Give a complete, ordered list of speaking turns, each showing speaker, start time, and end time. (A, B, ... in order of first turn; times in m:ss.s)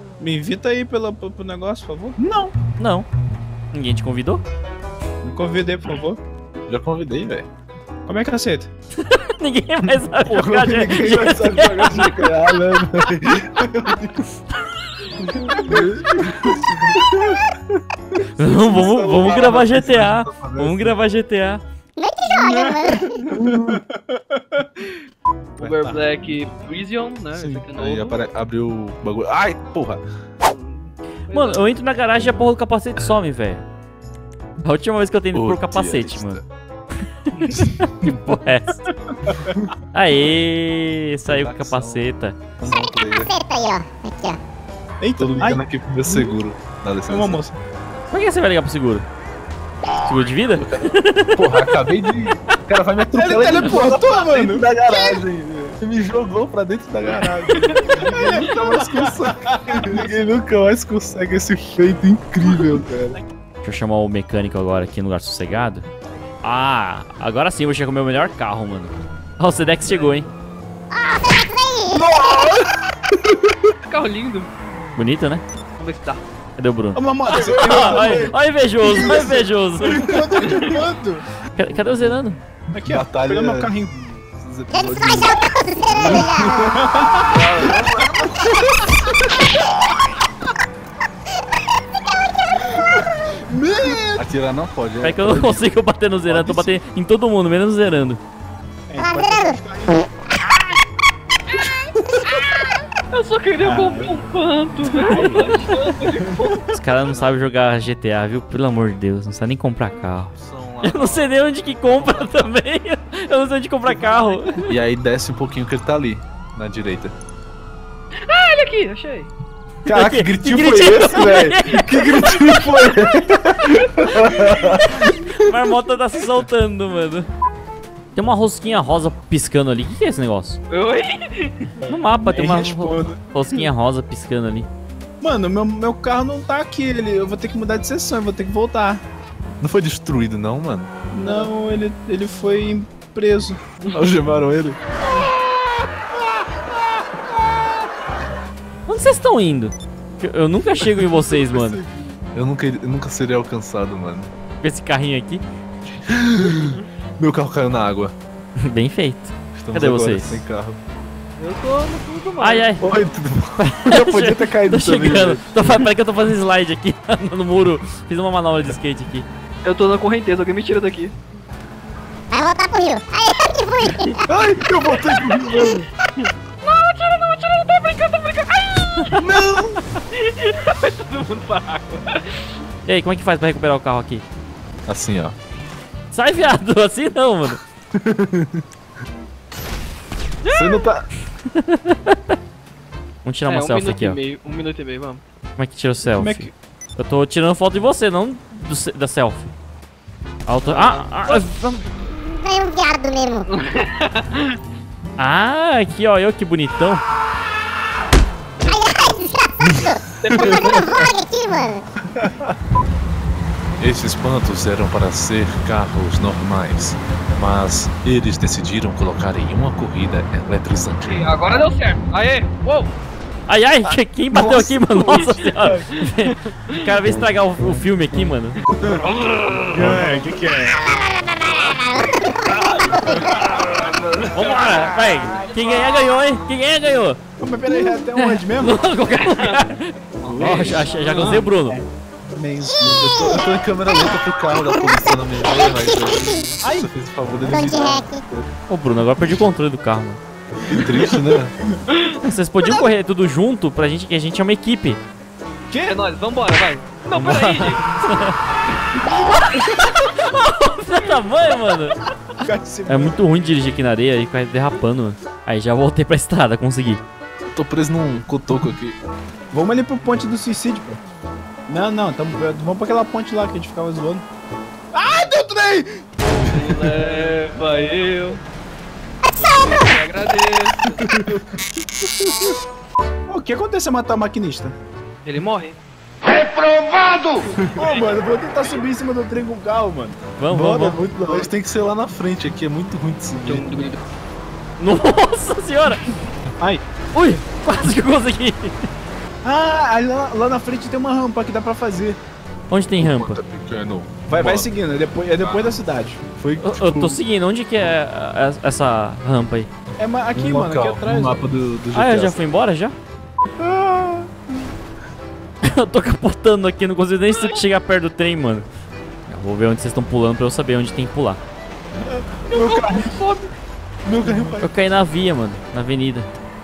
0:00.2-0:02.5 A
0:02.8-0:03.1 B
0:03.7-0:04.4 B
0:05.2-0:06.2 A
0:06.7-0:07.5 C
0:08.1-0:08.7 A
0:09.0-0:12.1 B
0:10.2-0:14.2 C
0:10.8-0:11.3 A
0:15.3-0:17.0 A
0:15.6-0:17.4 C
0:18.4-0:21.6 B
0:18.4-0:21.0 C
0:18.7-0:19.7 A
0:22.0-0:23.3 D
0:22.3-0:24.9 A
0:23.4-0:23.8 C
0:25.6-0:28.2 E
0:25.6-0:26.0 A
0:27.3-0:30.0 C
0:30.4-0:31.7 E
0:31.3-0:33.6 B
0:34.6-0:36.4 B
0:35.3-0:36.4 C
0:37.5-0:38.8 B
0:39.3-0:39.5 A
0:39.9-0:42.4 B
0:41.2-0:43.3 C
0:42.6-0:44.4 D
0:45.0-0:46.3 A
0:45.2-0:47.4 C
0:47.1-0:47.6 A
0:48.1-0:49.0 B
0:50.0-0:51.7 B
0:50.5-1:03.2 C
0:53.1-0:54.7 A
0:57.5-0:57.8 E
0:57.8-1:00.1 A
1:02.6-1:03.2 A
1:03.6-1:05.8 B
1:06.4-1:10.3 B
1:10.9-1:12.1 D
1:12.2-1:12.4 A
1:13.8-1:14.5 E
1:15.0-1:15.4 B
1:15.8-1:16.2 E
1:16.6-1:20.2 B
1:16.9-1:21.2 A
1:17.4-1:17.8 E
1:20.4-1:20.8 E
1:21.5-1:22.4 B
1:21.8-1:22.2 C
1:22.7-1:24.0 A
1:22.8-1:25.4 C
1:24.7-1:26.7 D
1:25.9-1:26.3 C
1:26.0-1:28.8 A
1:27.2-1:28.2 E
1:32.6-1:34.2 A
1:34.1-1:35.7 C
1:35.0-1:38.2 B
1:38.9-1:40.1 A
1:39.0-1:39.6 D
1:43.1-1:46.6 E
1:43.6-1:44.2 A
1:44.9-1:45.7 A
1:45.1-1:45.5 B
1:46.7-1:54.7 B
1:46.9-1:47.8 C
1:50.3-1:51.3 C
1:51.9-1:52.5 C
1:54.6-1:57.1 C
1:58.3-1:59.3 E
1:59.8-2:05.1 C
1:59.9-2:02.8 B
2:05.4-2:07.3 B
2:08.1-2:10.6 B
2:10.7-2:11.8 E
2:11.8-2:14.7 B
2:12.2-2:13.6 A
2:15.2-2:19.0 A
2:19.6-2:20.9 C
2:21.1-2:23.6 A
2:21.2-2:21.5 E
2:23.9-2:24.8 C
2:28.8-2:31.8 B
2:31.1-2:34.3 C
2:34.6-2:35.4 B
2:36.0-2:38.1 C
2:36.5-2:36.8 E
2:38.6-2:40.4 B
2:39.6-2:40.8 C
2:41.4-2:42.8 E
2:42.4-2:42.8 B
2:42.8-2:45.8 C
2:43.6-2:49.3 B
2:49.6-2:51.2 E
2:52.3-2:54.2 D
2:54.3-2:55.8 C
2:55.3-2:55.7 E
2:56.2-2:59.4 E
2:59.2-2:59.8 C
3:00.1-3:02.5 E
3:02.8-3:04.2 B
3:04.8-3:05.3 C
3:06.1-3:07.6 B
3:07.9-3:08.6 C
3:10.4-3:10.8 E
3:10.5-3:11.1 C
3:11.6-3:12.2 B
3:13.2-3:14.2 B
3:13.4-3:15.2 E
3:15.6-3:19.5 B
3:16.1-3:16.5 A
3:20.4-3:21.8 B
3:20.6-3:21.5 E
3:22.0-3:23.5 D
3:23.5-3:24.6 E
3:25.2-3:27.0 B
3:28.6-3:31.8 D
3:29.6-3:30.6 C
3:30.2-3:30.9 E
3:33.8-3:41.3 C
3:41.0-3:42.9 E
3:43.5-3:48.6 B
3:44.3-3:45.8 C
3:45.1-3:45.7 E
3:49.0-3:50.1 E
3:49.7-3:50.8 A
3:50.6-3:53.5 D
3:53.2-3:55.4 E
3:54.3-3:57.2 B
3:57.4-3:58.8 A
3:57.7-4:01.8 B
3:59.1-3:59.6 E
4:00.2-4:03.2 A
4:00.3-4:01.3 E
4:00.4-4:00.8 C
4:02.8-4:08.5 C
4:05.5-4:06.5 D
4:06.6-4:06.9 A
4:07.4-4:08.2 D
4:08.7-4:10.2 B
4:10.7-4:11.5 C
4:11.9-4:12.2 E
4:12.2-4:15.0 B
4:15.7-4:16.0 A
4:15.8-4:17.8 E
4:17.1-4:18.4 B
4:19.0-4:22.0 B
4:22.4-4:23.2 A
4:22.9-4:27.0 B
4:27.5-4:29.0 C
4:29.5-4:31.0 A
4:31.7-4:34.2 A
4:34.9-4:36.0 A
4:36.4-4:38.4 E
4:39.4-4:41.0 E
4:40.9-4:41.6 C
4:43.3-4:44.8 A
4:45.2-4:45.8 E
4:47.2-4:48.1 E
4:47.7-4:51.5 A
4:50.4-4:51.0 B
4:50.5-4:53.7 C
4:53.4-4:54.0 E
4:54.8-4:56.1 B
4:57.1-4:58.8 B
4:59.4-5:02.2 A
5:02.7-5:03.4 B
5:03.0-5:04.7 C
5:04.3-5:06.2 A
5:05.4-5:05.8 C
5:06.4-5:07.2 C
5:06.6-5:09.7 B
5:10.0-5:11.4 A
5:10.3-5:12.4 C
5:11.9-5:13.0 B
5:13.6-5:14.4 A
5:15.6-5:18.7 B
5:19.3-5:21.4 B
5:22.5-5:23.2 C
5:22.5-5:23.5 E
5:24.0-5:24.7 C
5:24.2-5:24.5 A
5:24.6-5:26.3 B